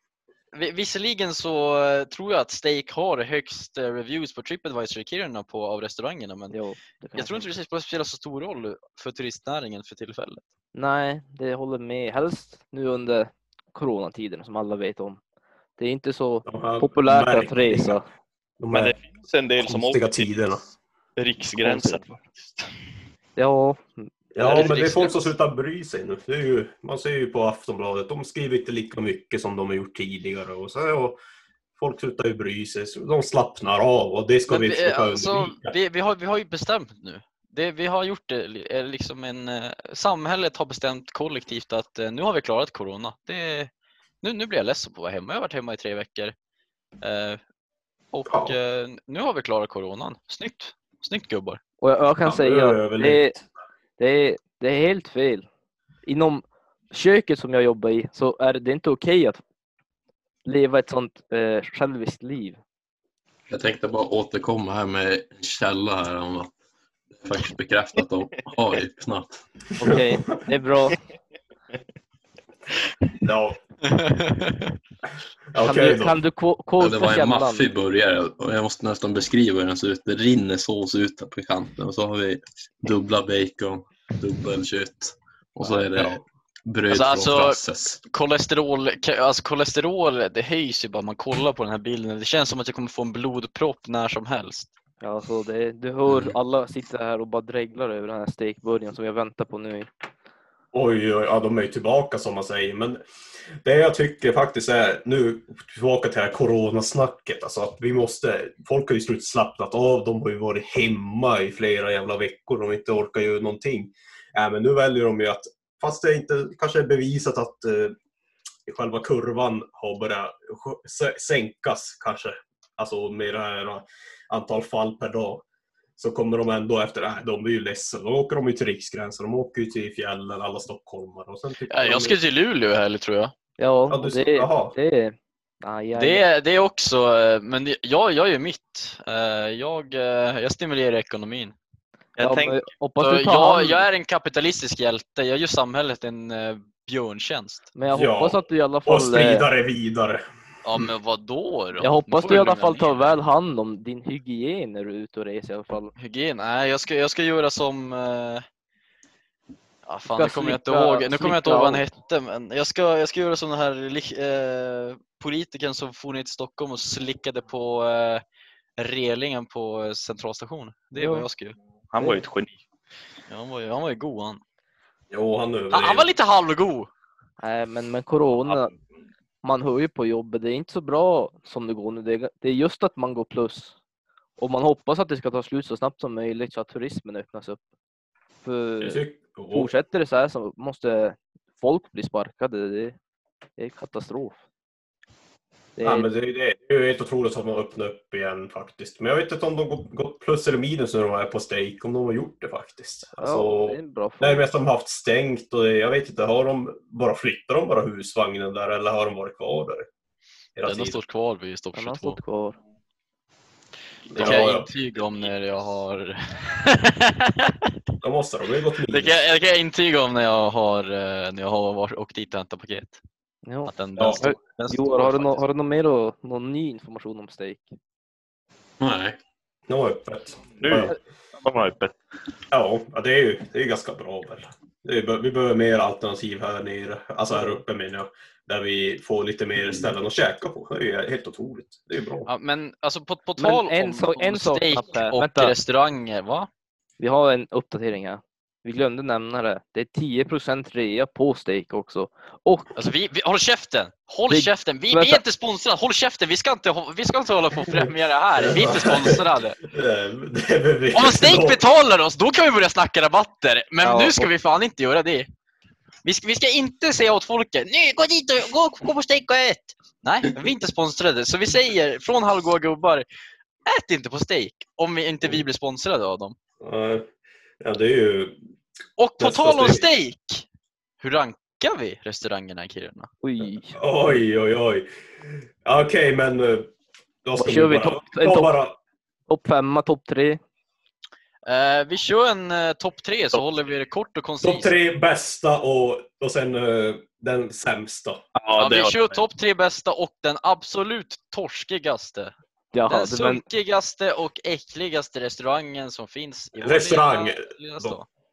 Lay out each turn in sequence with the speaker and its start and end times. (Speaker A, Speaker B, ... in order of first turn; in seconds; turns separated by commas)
Speaker A: 0.5-6.5, Speaker B: 6.5-7.5, Speaker A: 7.2-10.4, Speaker B: 10.8-15.2, Speaker B: 15.8-18.1, Speaker C: 16.5-18.0, Speaker C: 18.6-19.0, Speaker D: 18.7-20.4, Speaker C: 19.6-20.6, Speaker D: 21.2-22.7, Speaker B: 21.6-22.1, Speaker B: 23.4-24.1, Speaker C: 24.3-31.2, Speaker A: 24.4-25.2, Speaker C: 31.8-35.8, Speaker A: 34.5-43.7, Speaker A: 44.2-46.3, Speaker A: 47.0-47.4, Speaker A: 48.1-51.6, Speaker C: 48.3-48.6, Speaker B: 51.8-53.4, Speaker C: 52.2-53.4, Speaker B: 54.0-55.5, Speaker B: 56.0-59.4, Speaker B: 60.5-62.6, Speaker E: 63.5-66.5, Speaker E: 67.2-69.4, Speaker B: 69.8-71.0, Speaker C: 69.8-70.1, Speaker C: 73.2-73.6, Speaker A: 73.9-74.8, Speaker C: 75.5-76.2, Speaker B: 75.6-77.7, Speaker E: 76.8-88.0, Speaker C: 85.7-86.2, Speaker A: 86.9-94.7, Speaker B: 95.0-99.9, Speaker E: 96.1-96.3, Speaker C: 100.7-103.0, Speaker C: 103.6-118.0, Speaker C: 118.7-125.4, Speaker C: 126.0-132.2, Speaker A: 131.7-133.3, Speaker B: 133.6-136.2, Speaker C: 133.9-134.8, Speaker A: 136.0-141.6, Speaker D: 142.2-142.7, Speaker B: 142.2-143.9, Speaker A: 143.0-147.7, Speaker B: 147.8-149.5, Speaker C: 147.9-150.2, Speaker A: 150.6-153.0, Speaker B: 151.8-155.9, Speaker A: 156.0-158.4, Speaker A: 159.9-168.2, Speaker B: 160.1-161.8, Speaker A: 168.8-171.6, Speaker B: 171.0-171.3, Speaker D: 171.9-172.6, Speaker A: 173.3-174.4, Speaker C: 175.1-176.1, Speaker A: 175.7-176.9, Speaker B: 177.4-178.7, Speaker B: 179.4-183.8, Speaker B: 184.4-187.6, Speaker B: 188.4-193.0, Speaker C: 188.8-189.7, Speaker B: 193.6-194.4, Speaker B: 195.8-196.1, Speaker C: 195.8-209.9, Speaker B: 203.2-204.4, Speaker C: 210.6-211.0, Speaker A: 210.7-212.2, Speaker B: 211.8-212.6, Speaker C: 214.1-214.7, Speaker A: 214.2-217.7, Speaker C: 218.0-219.2, Speaker A: 218.9-223.0, Speaker B: 223.4-227.8, Speaker A: 223.7-225.4, Speaker C: 224.0-224.2, Speaker E: 228.8-229.2, Speaker C: 229.7-230.9, Speaker D: 230.6-231.9, Speaker C: 232.5-242.3, Speaker B: 237.3-237.6, Speaker A: 242.3-246.5, Speaker B: 243.4-245.5, Speaker B: 247.0-252.7, Speaker A: 252.8-259.6, Speaker B: 254.3-255.2, Speaker C: 258.4-261.6, Speaker A: 260.9-265.3, Speaker B: 263.8-264.3, Speaker A: 266.0-273.1, Speaker A: 273.7-276.4, Speaker C: 276.6-277.1, Speaker C: 277.6-278.4, Speaker A: 279.0-280.4, Speaker C: 279.2-279.9, Speaker A: 281.0-283.1, Speaker B: 283.2-283.8, Speaker C: 283.8-286.7, Speaker C: 287.2-288.8, Speaker B: 287.4-288.6, Speaker B: 289.3-290.4, Speaker A: 291.4-294.8, Speaker C: 294.4-298.2, Speaker D: 298.4-299.2, Speaker A: 298.6-302.3, Speaker B: 302.7-303.4, Speaker A: 302.9-308.1, Speaker C: 306.6-308.0